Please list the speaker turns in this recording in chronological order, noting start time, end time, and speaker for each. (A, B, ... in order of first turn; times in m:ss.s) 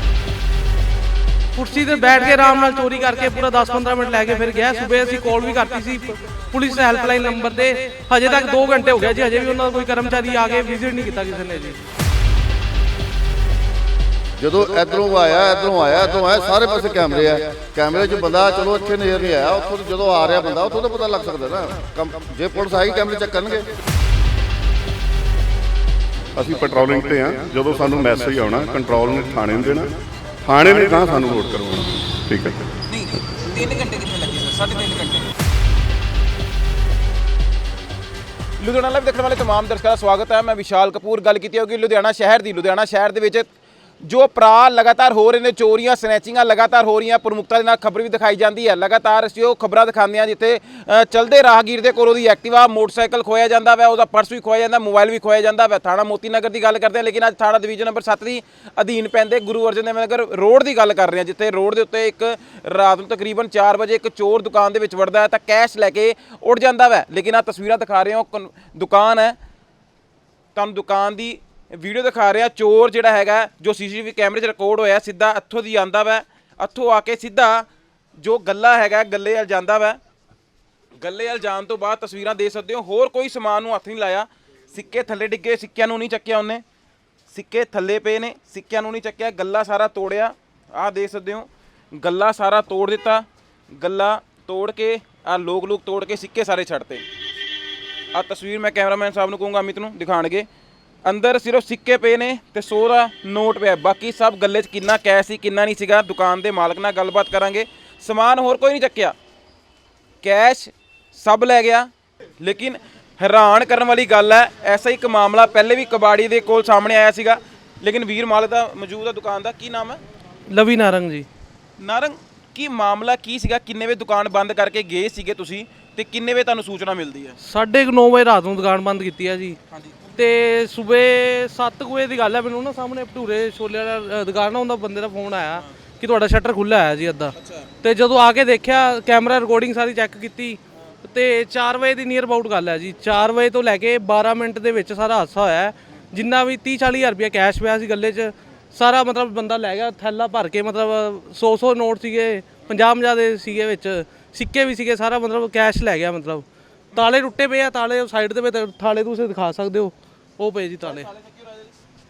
0:01.5-0:11.8 A
0:14.4-0:23.7 B
0:26.4-0:32.6 C
0:32.9-0:35.3 D
0:38.6-0:43.5 D
0:44.0-1:09.4 D
1:10.5-1:17.7 D
1:18.2-1:20.0 D
1:21.0-1:26.6 D
1:27.3-1:33.2 D
1:33.8-1:37.0 D
1:38.1-1:40.5 D
1:41.0-1:49.1 D
1:50.2-1:51.9 D
1:52.4-2:00.0 D
2:00.5-2:01.3 A
2:01.8-2:07.4 D
2:07.4-2:09.6 A
2:09.7-2:10.0 D
2:10.2-2:41.1 A
2:17.4-2:17.7 D
2:40.8-2:41.7 D